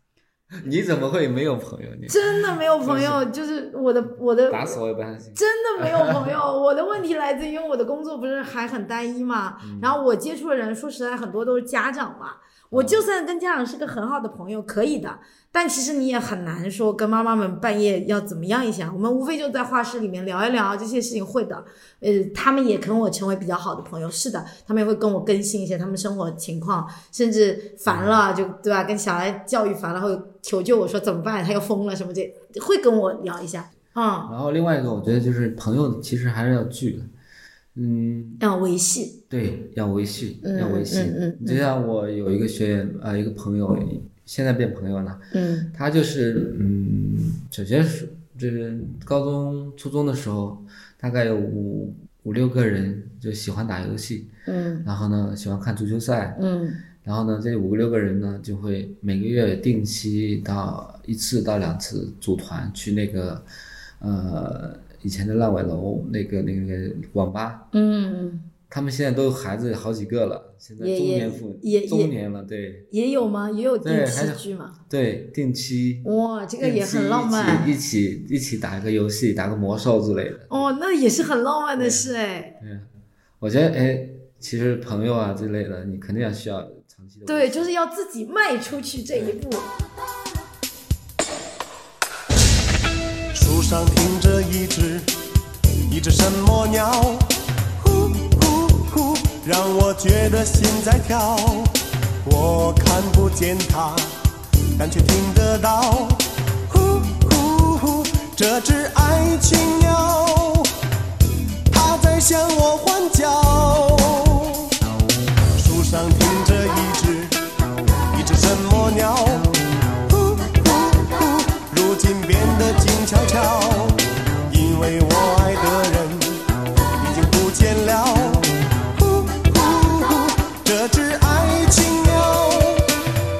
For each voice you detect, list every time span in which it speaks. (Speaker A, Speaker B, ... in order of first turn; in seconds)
Speaker A: 0.6-2.2, 2.8-3.2, 4.5-6.3, 9.6-10.0, 12.7-13.0, 27.9-28.2, 34.3-37.1, 37.7-38.4, 39.3-54.3, 54.8-56.4, 57.0-63.4, 64.0-67.6, 68.7-72.9, 73.8-76.1, 76.6-80.7, 81.8-82.1, 82.6-82.9, 83.4-87.7
Speaker B: 2.1-4.8, 5.3-34.3, 38.4-39.2, 40.4-41.6, 45.3-45.7, 54.5-54.9, 56.4-56.8, 67.7-68.5, 70.8-72.1, 72.9-74.8, 76.0-77.7, 80.5-82.6, 87.2-89.7
Speaker C: 93.3-95.1, 95.9-104.2, 104.8-110.7, 111.7-114.7, 115.5-117.4, 118.1-126.4, 127.0-132.9